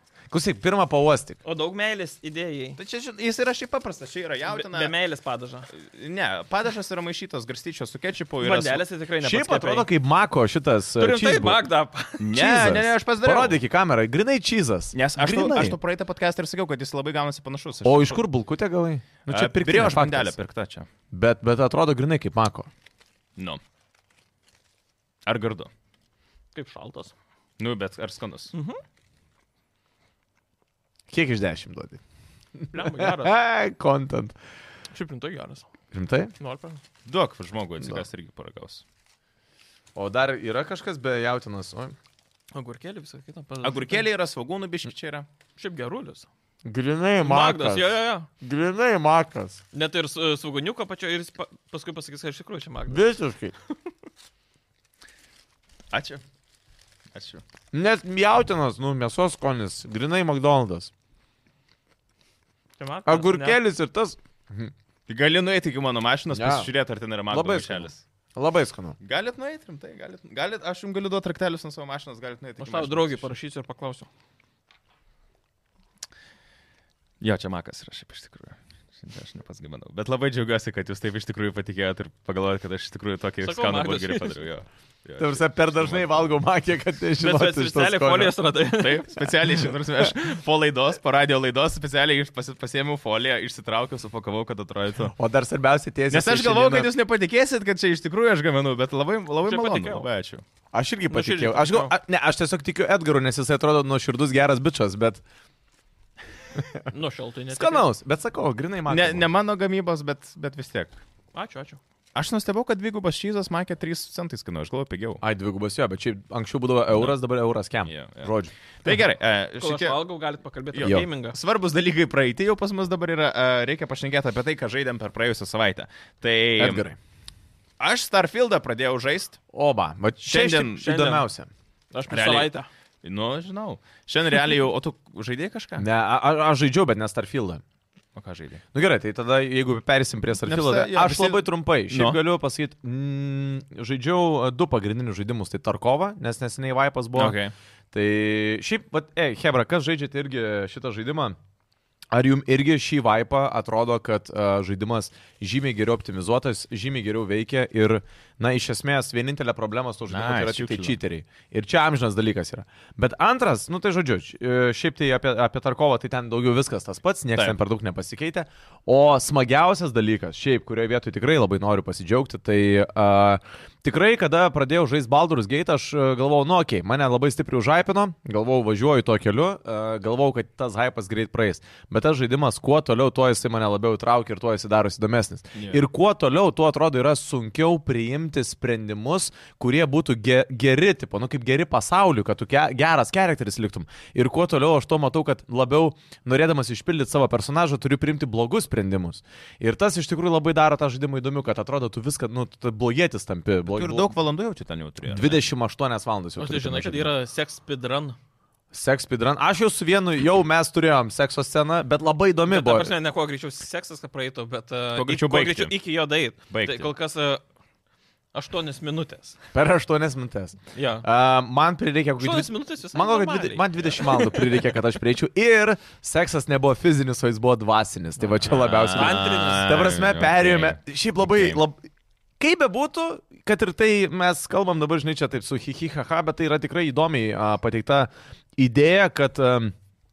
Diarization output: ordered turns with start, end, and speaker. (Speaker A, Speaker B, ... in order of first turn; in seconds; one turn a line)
Speaker A: 0.3-1.4
Speaker B: 1.4-2.8
Speaker C: 2.8-4.9
Speaker B: 4.5-5.7
Speaker C: 5.7-8.8
Speaker B: 8.4-9.9
Speaker A: 9.2-11.6
Speaker B: 11.0-12.3
Speaker C: 12.2-13.6
Speaker A: 12.3-15.8
Speaker C: 14.9-18.2
Speaker A: 17.8-20.3
Speaker C: 19.2-20.9
Speaker A: 21.1-22.7
Speaker C: 25.2-25.7
Speaker B: 26.5-27.1
Speaker C: 27.6-28.5
Speaker B: 28.5-28.8
Speaker A: 31.1-32.0
Speaker A: 32.5-34.3
Speaker B: 32.7-33.4
Speaker B: 34.9-35.7
Speaker A: 35.9-36.3
Speaker B: 36.4-36.8
Speaker C: 37.0-38.8
Speaker A: 39.9-42.0
Speaker B: 42.5-44.0
Speaker C: 43.6-45.3
Speaker B: 45.6-46.3
Speaker A: 46.6-49.6
Speaker B: 47.2-48.3
Speaker B: 49.7-53.1
Speaker A: 52.9-53.5
Speaker C: 55.9-56.2
Speaker C: 57.1-57.4
Speaker A: 57.7-60.9
Speaker B: 62.8-63.6
Speaker A: 63.1-64.7
Speaker C: 65.1-68.0
Speaker A: 66.3-66.7
Speaker A: 67.3-69.0
Speaker C: 69.0-73.3
Speaker B: 72.6-74.1
Speaker C: 77.2-86.3
Speaker B: 83.4-84.3
Speaker A: 85.2-88.3
Speaker B: 87.2-89.3
Speaker C: 88.7-95.1
Speaker A: 95.1-96.9
Speaker C: 96.1-100.4
Speaker B: 99.5-100.1
Speaker A: 100.7-105.2
Speaker B: 101.1-101.9
Speaker A: 106.6-106.8
Speaker B: 106.9-107.8
Speaker A: 107.5-109.3
Speaker C: 108.9-110.9
Speaker B: 111.3-111.8
Speaker C: 112.1-115.2
Speaker A: 115.2-119.0
Speaker C: 117.8-118.3
Speaker C: 118.8-120.0
Speaker B: 119.6-121.4
Speaker C: 120.7-126.8
Speaker A: 120.8-121.0
Speaker A: 126.6-127.0
Speaker C: 127.8-129.4
Speaker A: 129.5-131.5
Speaker C: 130.2-131.2
Speaker B: 130.8-131.2
Speaker B: 131.9-132.7
Speaker C: 132.1-135.8
Speaker A: 135.8-137.6
Speaker C: 138.2-138.6
Speaker A: 138.7-147.4
Speaker C: 140.4-142.2
Speaker C: 147.1-147.5
Speaker A: 147.9-151.4
Speaker A: 152.1-204.1
Speaker C: 160.1-160.9
Speaker C: 185.5-185.8
Speaker C: 203.7-205.4
Speaker A: 205.1-207.1
Speaker B: 206.4-208.2
Speaker A: 208.7-212.9
Speaker B: 212.5-217.4
Speaker C: 214.9-215.8
Speaker C: 216.5-216.9
Speaker B: 218.3-219.4
Speaker A: 219.5-231.8
Speaker B: 220.7-221.0
Speaker B: 222.2-224.5
Speaker C: 228.4-231.6
Speaker B: 228.9-230.0
Speaker A: 232.4-239.7